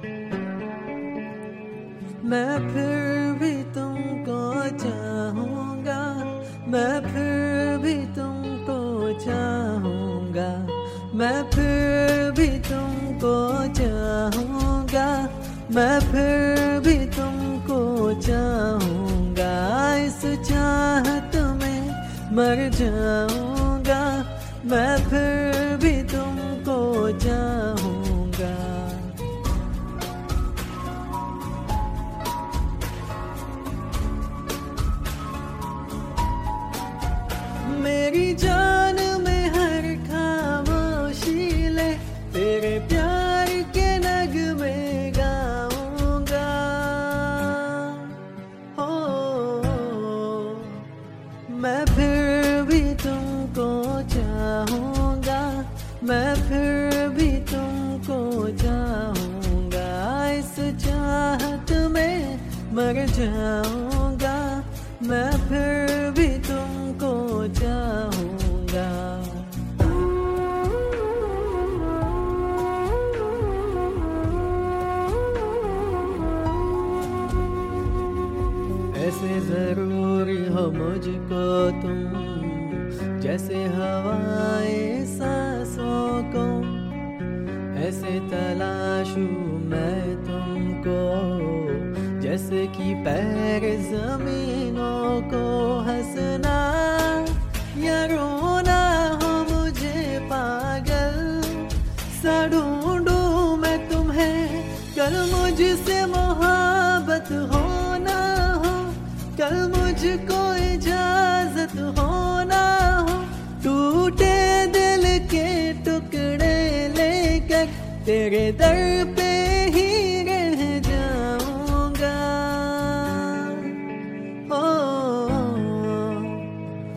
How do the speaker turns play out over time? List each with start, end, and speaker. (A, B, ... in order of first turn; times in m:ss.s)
0:02.2-0:29.2 A
0:37.6-0:50.9 A
0:51.5-1:09.8 A
1:18.9-1:26.9 A
1:27.7-2:03.8 A
2:04.5-2:06.6 A